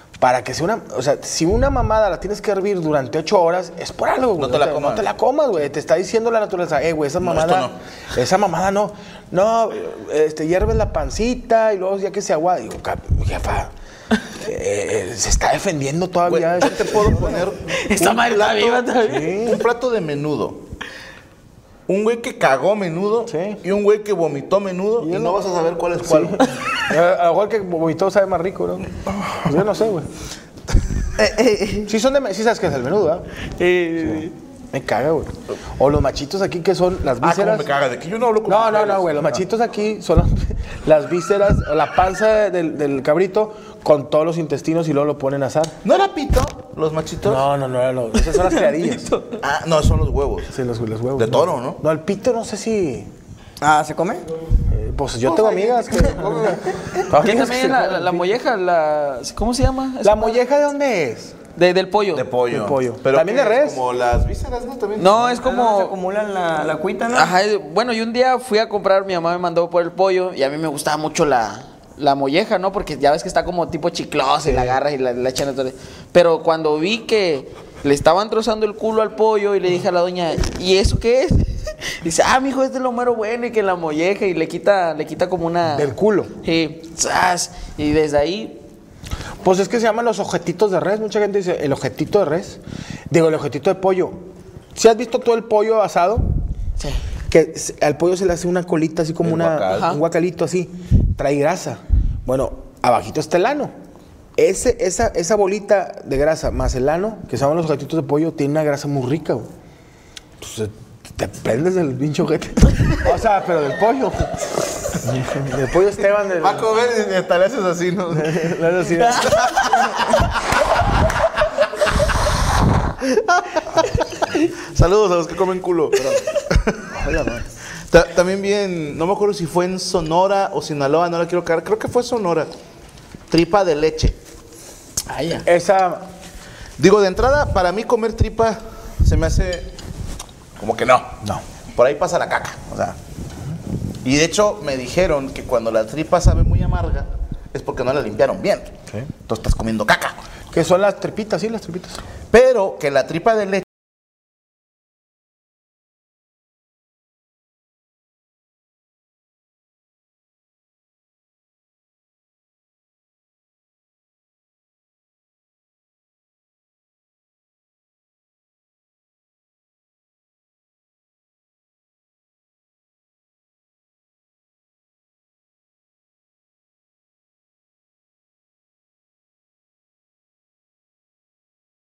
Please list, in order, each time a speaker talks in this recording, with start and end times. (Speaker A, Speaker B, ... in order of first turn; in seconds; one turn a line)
Speaker A: 0.2-13.7
Speaker B: 4.4-5.1
Speaker B: 7.2-7.8
Speaker A: 14.3-17.5
Speaker B: 16.3-20.6
Speaker C: 17.8-19.4
Speaker A: 19.0-19.6
Speaker B: 21.9-26.6
Speaker A: 23.3-23.6
Speaker A: 25.0-25.4
Speaker A: 26.0-28.9
Speaker A: 29.4-30.1
Speaker C: 31.2-31.8
Speaker A: 31.9-33.3
Speaker C: 33.6-34.3
Speaker A: 34.0-37.7
Speaker B: 37.2-39.4
Speaker A: 38.5-45.8
Speaker B: 45.8-47.5
Speaker A: 47.2-49.1
Speaker C: 48.4-49.3
Speaker B: 49.4-50.5
Speaker A: 50.5-53.1
Speaker B: 51.2-51.8
Speaker D: 53.6-54.2
Speaker A: 54.7-58.3
Speaker B: 55.2-57.0
Speaker C: 57.1-60.4
Speaker A: 60.0-61.4
Speaker C: 61.5-62.3
Speaker B: 62.1-65.3
Speaker A: 62.5-63.8
Speaker C: 65.0-66.0
Speaker D: 65.4-67.3
Speaker C: 67.1-88.6
Speaker A: 74.5-74.8
Speaker A: 85.7-86.3
Speaker A: 89.4-94.2
Speaker A: 94.7-96.3
Speaker A: 97.3-103.7
Speaker B: 99.2-100.0
Speaker C: 99.7-100.0
Speaker A: 104.4-109.5
Speaker A: 110.4-114.5
Speaker A: 115.0-116.7
Speaker B: 116.4-120.3
Speaker A: 118.1-119.3
Speaker B: 123.0-126.9
Speaker A: 126.9-127.5
Speaker B: 127.9-132.5
Speaker B: 133.3-134.2
Speaker C: 135.1-135.4
Speaker A: 135.4-136.1
Speaker B: 136.8-139.7
Speaker B: 140.6-141.2
Speaker B: 141.8-143.0
Speaker B: 144.0-150.3
Speaker A: 150.5-152.1
Speaker B: 152.3-153.7